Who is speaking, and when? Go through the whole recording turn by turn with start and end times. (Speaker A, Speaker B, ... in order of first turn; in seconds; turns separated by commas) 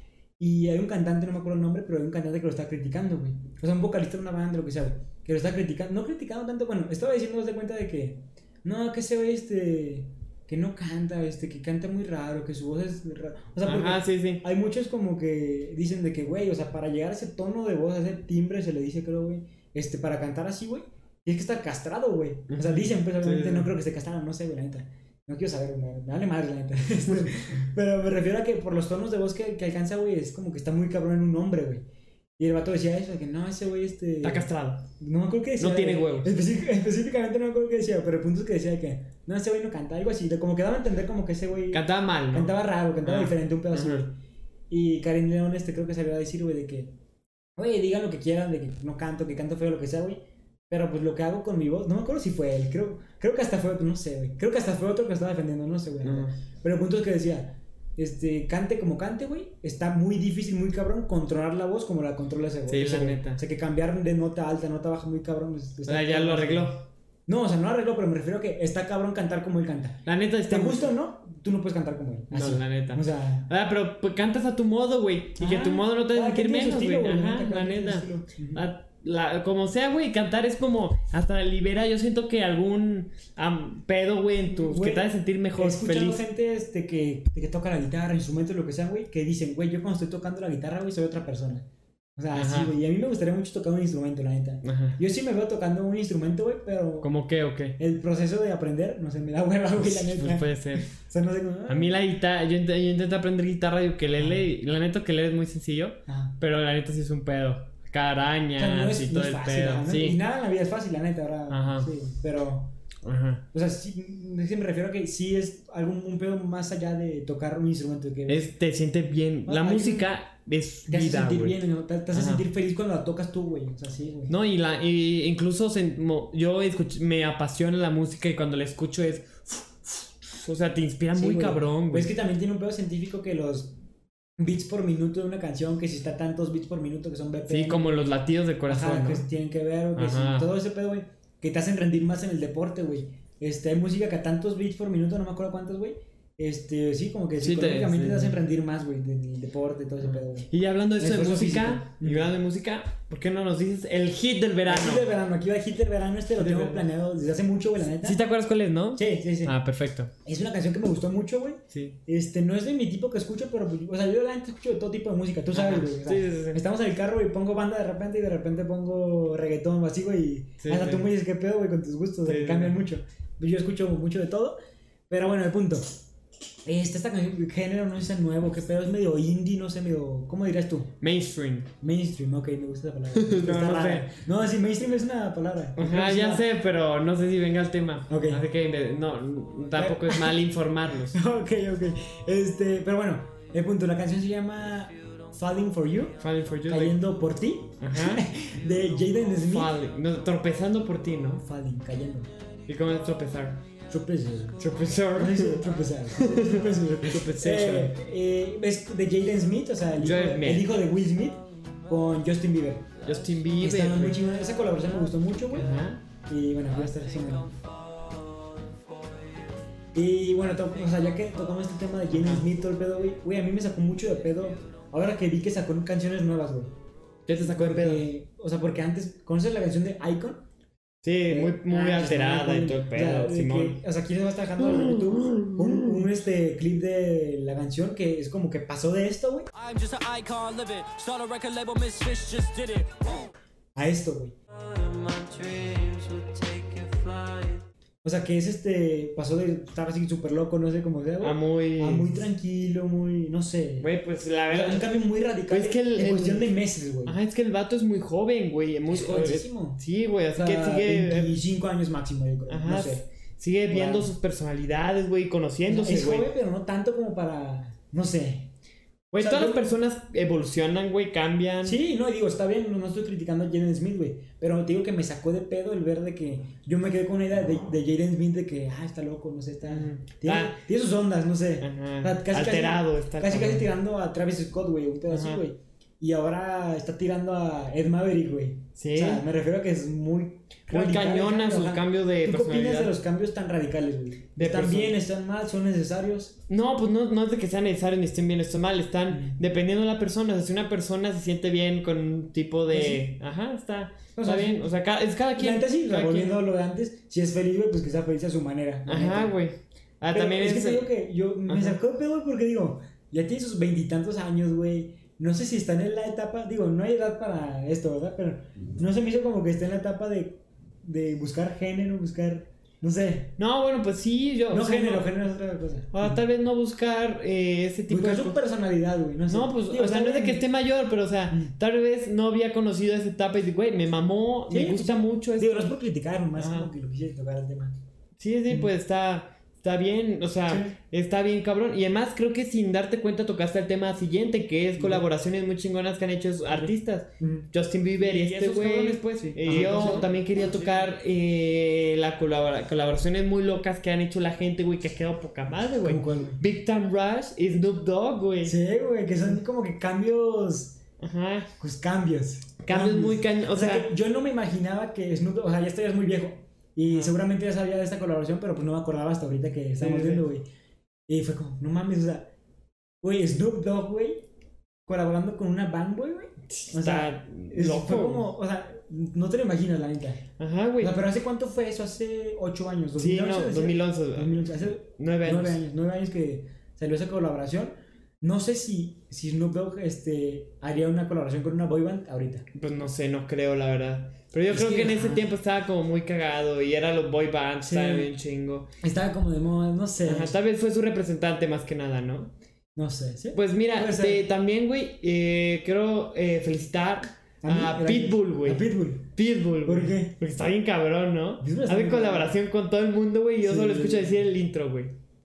Speaker A: 0.4-31.8, Speaker B: 13.6-14.4, Speaker B: 22.5-23.7, Speaker A: 32.4-44.1, Speaker B: 34.2-34.9, Speaker B: 35.6-36.3, Speaker B: 41.7-44.1, Speaker A: 44.7-46.9, Speaker A: 47.6-73.5, Speaker B: 56.0-56.3, Speaker B: 62.7-63.4, Speaker B: 65.9-66.8, Speaker B: 70.0-70.9, Speaker B: 72.3-86.2, Speaker A: 75.4-78.6, Speaker A: 84.5-97.1, Speaker B: 92.3-92.7, Speaker B: 94.6-95.0, Speaker B: 97.0-97.8, Speaker A: 97.8-102.0, Speaker B: 99.8-100.9, Speaker B: 101.7-110.2, Speaker A: 104.2-104.4, Speaker A: 106.1-106.3, Speaker A: 108.5-112.7, Speaker B: 111.5-111.9, Speaker B: 113.0-113.4, Speaker A: 113.5-118.5, Speaker B: 118.3-121.6, Speaker A: 119.5-120.1, Speaker A: 120.9-124.3, Speaker B: 122.1-122.4, Speaker B: 124.3-132.1, Speaker A: 131.1-133.7, Speaker A: 134.4-137.9, Speaker B: 137.5-139.3, Speaker A: 138.7-152.3, Speaker B: 139.9-140.5, Speaker B: 147.4-148.3, Speaker B: 150.0-155.1, Speaker A: 154.7-158.2, Speaker B: 156.3-156.8, Speaker B: 158.0-160.1, Speaker A: 158.9-159.5, Speaker A: 160.2-174.6, Speaker B: 161.7-162.0, Speaker B: 165.5-166.6, Speaker B: 170.6-171.1, Speaker B: 172.2-172.8, Speaker A: 175.1-175.9, Speaker A: 176.6-180.9, Speaker B: 181.0-181.7, Speaker A: 181.8-186.4, Speaker B: 183.1-184.1, Speaker B: 185.8-191.2, Speaker A: 188.1-188.4, Speaker A: 189.8-190.4, Speaker A: 191.1-199.8, Speaker B: 196.2-197.0, Speaker B: 197.8-198.2, Speaker B: 199.4-201.4, Speaker A: 201.4-202.3, Speaker B: 202.7-203.6, Speaker A: 203.9-212.9, Speaker B: 204.6-208.0, Speaker B: 210.0-210.8, Speaker B: 213.0-214.3, Speaker A: 213.6-217.5, Speaker B: 215.5-216.0, Speaker C: 216.7-219.4, Speaker A: 219.9-226.7, Speaker C: 220.4-221.3, Speaker B: 222.1-222.4, Speaker B: 227.3-228.1, Speaker A: 227.4-230.4, Speaker B: 231.0-233.8, Speaker A: 231.3-239.5, Speaker B: 234.6-236.1, Speaker C: 239.5-243.3, Speaker A: 243.7-244.3, Speaker C: 244.5-247.6, Speaker A: 248.0-253.9, Speaker B: 251.2-252.1, Speaker B: 253.8-256.5, Speaker A: 254.5-257.2, Speaker B: 257.0-261.3, Speaker A: 258.9-259.8, Speaker A: 260.3-263.0, Speaker B: 262.5-266.3, Speaker A: 263.7-264.1, Speaker A: 265.7-268.5, Speaker B: 269.1-271.8, Speaker A: 269.2-269.7, Speaker A: 271.6-296.4, Speaker B: 279.6-280.6, Speaker B: 281.6-283.7, Speaker B: 285.1-285.4, Speaker B: 288.8-289.2, Speaker B: 290.7-292.9, Speaker B: 294.4-295.0, Speaker B: 296.5-306.4, Speaker A: 299.1-299.4, Speaker A: 302.7-303.1, Speaker A: 304.1-304.7, Speaker A: 305.4-309.4, Speaker B: 308.9-310.9, Speaker A: 310.1-323.4, Speaker B: 311.4-311.8, Speaker B: 323.4-325.1, Speaker A: 324.5-326.2, Speaker B: 325.9-328.4, Speaker A: 327.9-330.4, Speaker B: 329.3-335.7, Speaker A: 334.5-337.7, Speaker B: 336.4-336.7, Speaker B: 338.2-358.6, Speaker A: 340.5-340.8, Speaker A: 344.8-345.0, Speaker A: 346.5-350.1, Speaker A: 355.8-356.4, Speaker A: 358.4-360.8, Speaker B: 361.0-361.5, Speaker A: 361.6-370.4, Speaker B: 362.6-363.9, Speaker B: 366.9-367.1, Speaker B: 369.8-370.2, Speaker A: 371.1-372.3, Speaker A: 373.0-374.2, Speaker A: 374.9-380.2, Speaker B: 376.5-378.3, Speaker B: 380.4-381.0, Speaker A: 380.8-392.4, Speaker B: 383.0-385.6, Speaker B: 392.5-398.7, Speaker A: 394.5-395.3, Speaker A: 397.6-398.1, Speaker A: 398.8-400.3, Speaker B: 400.0-402.3, Speaker A: 402.8-404.2, Speaker B: 403.3-414.9, Speaker A: 407.4-410.1, Speaker A: 411.4-412.3, Speaker A: 413.4-414.2